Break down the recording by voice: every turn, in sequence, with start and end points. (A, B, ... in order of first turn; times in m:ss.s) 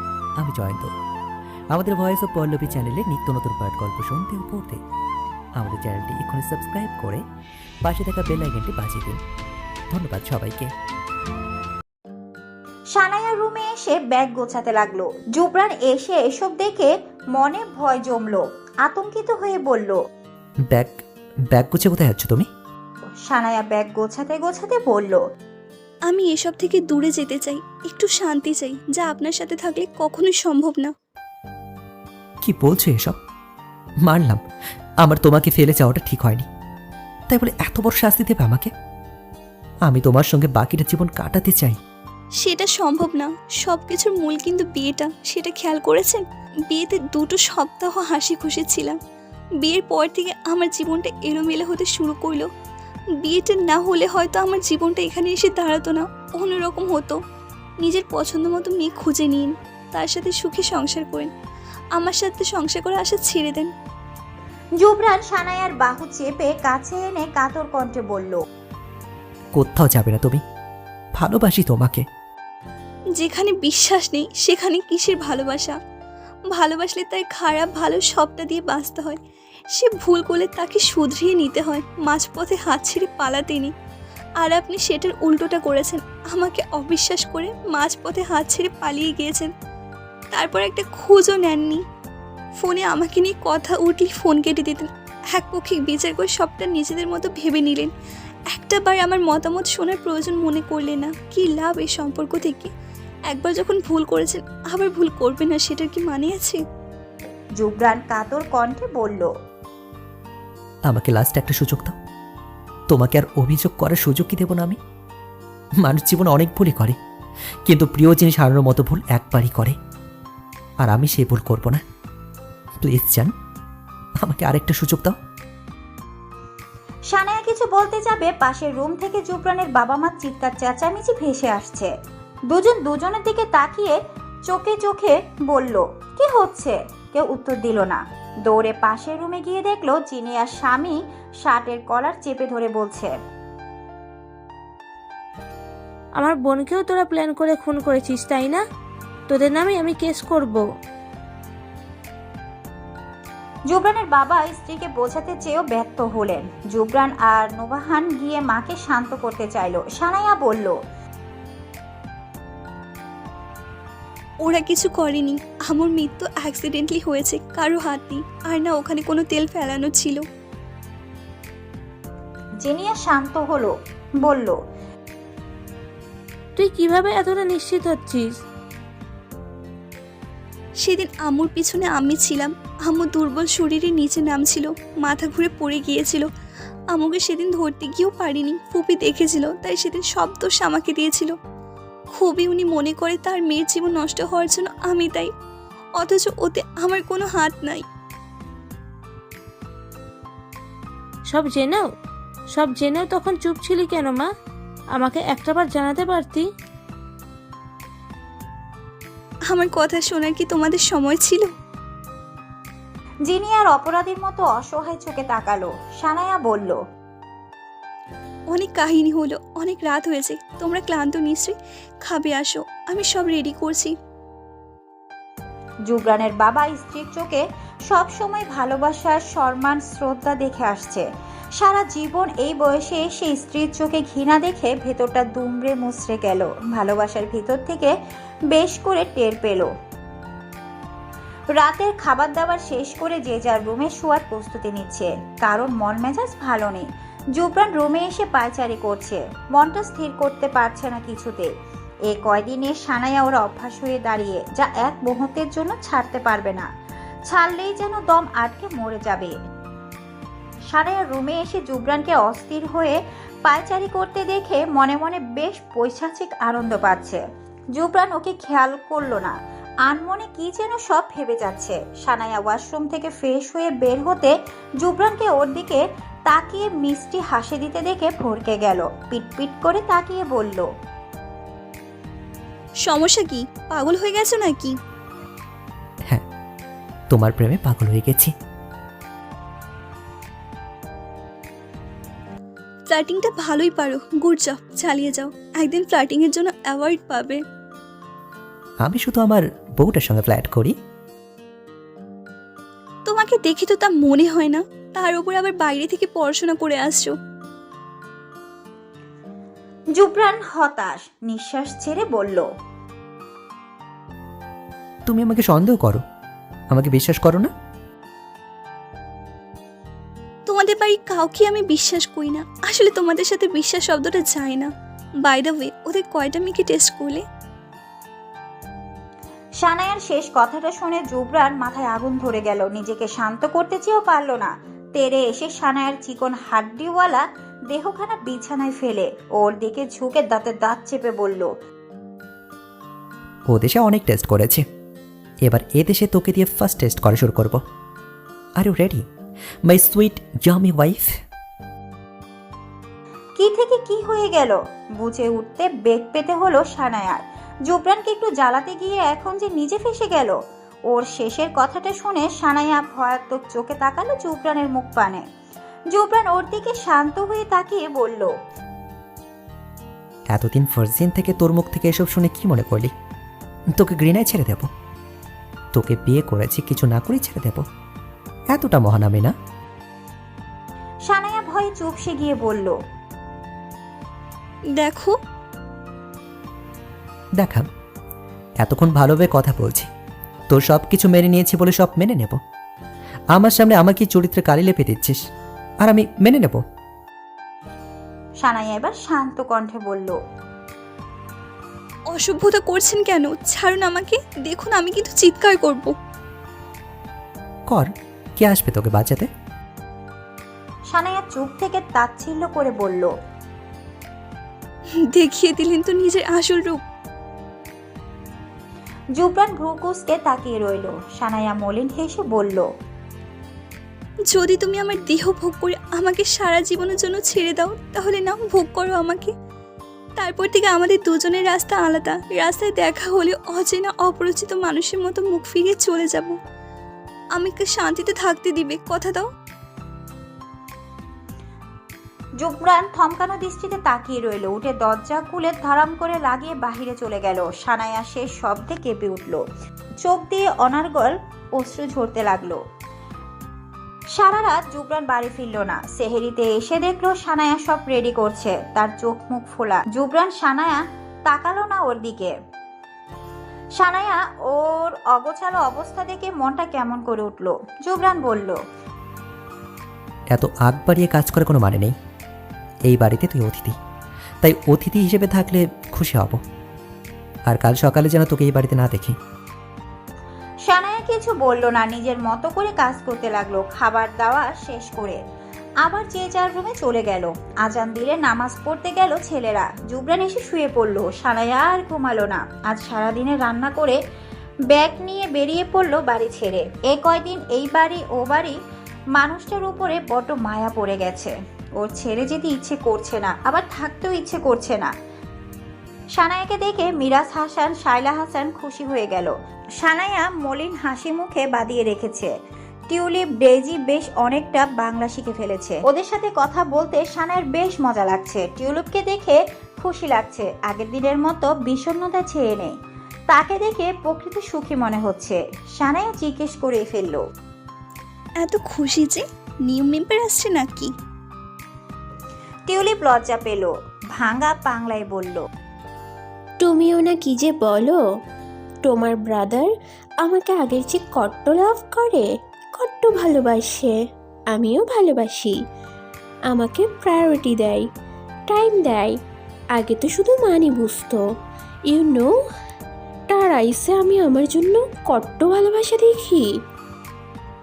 0:00.4-0:00.9 A
0:01.7-0:04.8 A
0:05.6-0:07.2 A
0:07.8-0:09.2 A
0:09.9-0:10.7 A
0:12.9-0:20.0 B
0:20.6-0:21.0 A
0:21.5-0:22.5 A
0:23.3-0:25.2 B
0:26.1-0:30.9 C
0:32.4-0:33.2 A
0:34.1-0:34.4 A
0:35.0-0:36.5 A
0:37.3-0:38.7 A
0:39.9-0:41.8 A
0:42.4-0:49.0 C
0:49.6-0:52.5 C
0:53.2-0:57.2 C
0:57.8-1:01.3 C
1:02.0-1:03.7 C
1:04.8-1:08.4 B
1:09.5-1:10.4 A
1:11.2-1:12.1 A
1:13.2-1:15.8 C
1:16.5-1:19.2 C
1:19.8-1:23.7 C
1:24.4-1:29.5 C
1:30.3-1:31.8 C
1:32.6-1:37.9 C
1:38.5-1:42.7 C
1:43.3-1:46.6 C
1:47.6-1:49.3 B
1:50.9-1:52.0 A
1:52.9-1:54.8 A
1:55.8-1:57.0 A
1:57.7-1:59.8 A
2:00.8-2:01.8 A
2:02.8-2:03.3 A
2:04.2-2:05.2 A
2:07.1-2:11.9 B
2:12.5-2:14.0 B
2:14.5-2:23.1 B
2:26.2-2:28.6 D
2:29.3-2:30.7 D
2:33.7-2:40.8 B
2:44.4-2:50.2 C
2:52.6-2:54.6 B
2:56.6-2:58.4 D
3:00.8-3:06.3 C
3:06.9-3:11.3 C
3:12.1-3:15.3 C
3:16.0-3:17.8 C
3:21.3-3:21.9 D
3:22.5-3:24.3 D
3:24.9-3:26.5 D
3:29.5-3:31.5 C
3:33.3-3:36.8 B
3:38.5-3:43.9 C
3:45.9-3:57.9 B
3:58.5-3:59.7 B
4:01.6-4:06.9 B
4:07.4-4:11.5 B
4:12.1-4:16.7 B
4:17.3-4:19.3 B
4:20.7-4:27.2 B
4:27.8-4:29.3 B
4:29.9-4:40.7 B
4:42.8-4:44.8 C
4:47.1-4:48.3 A
4:52.9-4:57.4 C
4:58.8-5:00.8 A
5:03.1-5:07.2 C
5:10.0-5:12.5 B
5:15.1-5:16.0 A
5:16.7-5:17.5 A
5:20.5-5:24.7 C
5:25.2-5:27.2 C
5:29.6-5:41.5 B
5:43.5-5:44.6 A
5:45.4-5:47.6 A
5:48.6-5:49.0 A
5:49.7-5:51.1 A
5:53.4-6:00.4 B
6:00.9-6:05.2 B
6:05.9-6:08.3 B
6:10.3-6:12.9 A
6:13.8-6:14.7 A
6:15.7-6:17.6 A
6:18.5-6:19.3 A
6:21.1-6:22.8 B
6:24.8-6:25.2 C
6:27.4-6:27.7 A
6:28.6-6:29.9 A
6:30.5-6:32.4 A
6:33.3-6:35.2 A
6:35.8-6:36.6 A
6:38.4-6:40.2 B
6:42.1-6:45.9 C
6:47.7-6:49.3 A
6:50.9-6:53.1 B
6:55.1-6:56.8 C
6:59.2-7:02.7 B
7:04.3-7:09.3 C
7:10.2-7:16.4 C
7:17.4-7:19.3 C
7:22.4-7:29.4 B
7:30.0-7:32.6 B
7:34.2-7:42.3 B
7:43.8-7:48.6 B
7:50.3-7:52.0 A
7:52.9-7:53.8 A
7:54.4-7:56.4 A
7:57.5-7:59.2 A
8:00.6-8:05.2 B
8:05.8-8:14.0 B
8:14.7-8:18.6 B
8:19.2-8:24.9 B
8:26.2-8:32.3 B
8:32.9-8:42.7 B
8:43.3-8:47.2 B
8:48.4-8:50.9 C
8:52.7-8:55.4 B
8:56.6-8:58.0 E
8:58.8-8:59.7 E
9:00.2-9:02.3 E
9:02.8-9:04.0 E
9:04.5-9:05.6 E
9:06.5-9:07.8 E
9:08.5-9:09.2 E
9:09.8-9:11.2 E
9:11.9-9:12.3 E
9:13.3-9:16.5 E